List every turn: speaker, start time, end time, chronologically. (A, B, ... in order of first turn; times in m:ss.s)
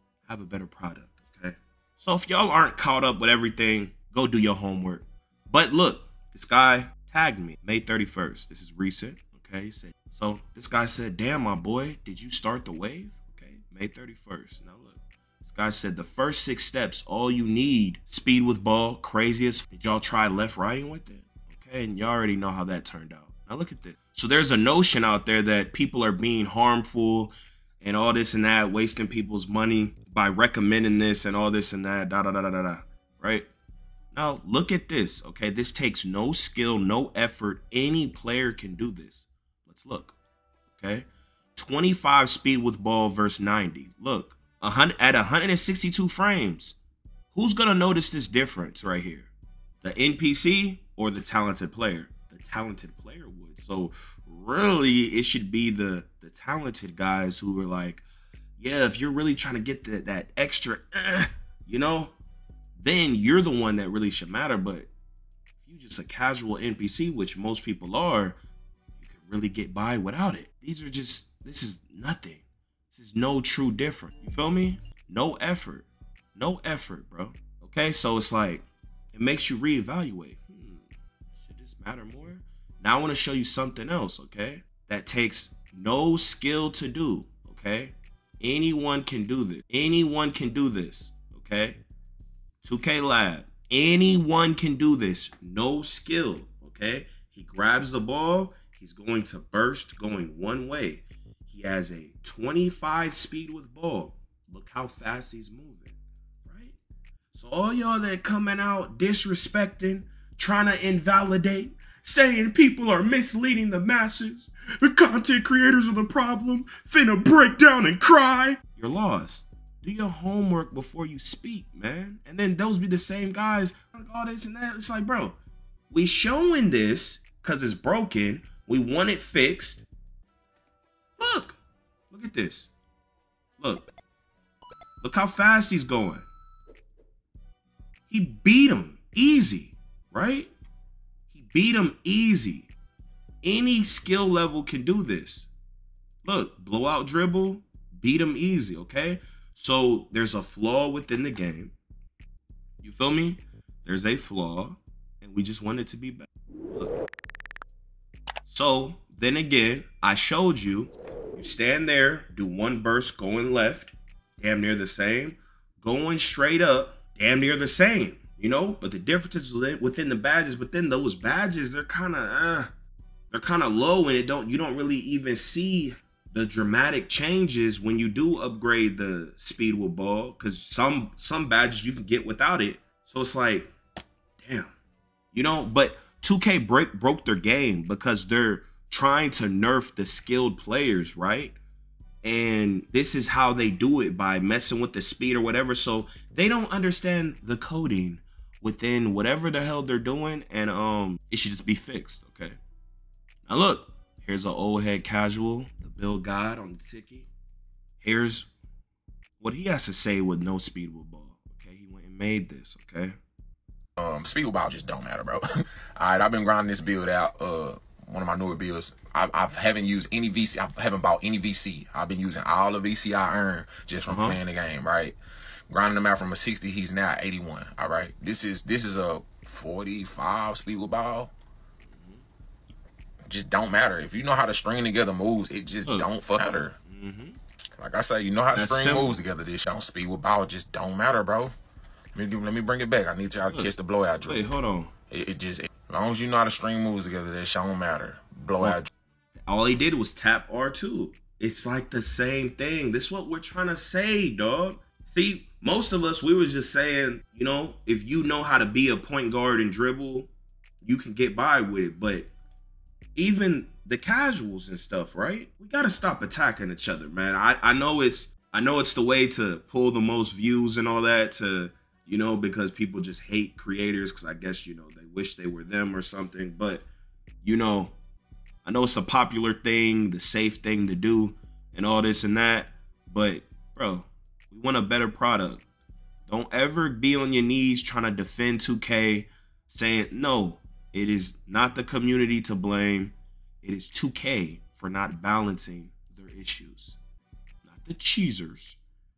0:00.2-0:33.5 A
0:34.1-0:40.1 A
0:40.8-0:46.8 A
0:47.3-0:49.3 A
0:49.8-0:58.0 A
0:58.6-1:02.1 A
1:02.8-1:04.9 A
1:05.6-1:08.4 A
1:09.0-1:20.8 A
1:21.4-1:31.8 A
1:32.6-1:46.8 A
1:47.3-2:05.4 A
2:05.9-2:09.8 A
2:11.2-2:11.6 A
2:12.1-2:12.7 A
2:13.6-2:13.9 A
2:15.0-2:16.3 A
2:18.1-2:20.5 A
2:21.3-2:22.7 A
2:23.4-2:25.5 A
2:26.2-2:31.7 A
2:32.8-2:37.0 A
2:38.4-2:52.7 A
2:53.3-3:03.7 A
3:04.4-3:04.7 A
3:05.3-3:11.6 A
3:12.2-3:22.6 A
3:23.4-3:27.3 A
3:28.0-3:28.5 A
3:29.4-3:33.2 A
3:34.0-3:35.4 B
3:36.0-3:45.2 B
3:44.1-3:44.4 A
3:45.7-3:51.3 B
3:51.9-3:52.2 A
3:53.3-3:56.8 B
3:56.9-3:57.4 A
3:57.8-4:01.5 B
3:58.5-3:59.2 A
4:02.1-4:04.4 B
4:04.2-4:04.9 A
4:05.1-4:08.9 B
4:09.4-4:20.3 A
4:20.8-4:22.3 A
4:23.2-4:36.8 A
4:37.4-4:37.9 A
4:38.6-4:45.6 A
4:46.3-4:57.0 A
4:57.6-4:58.8 A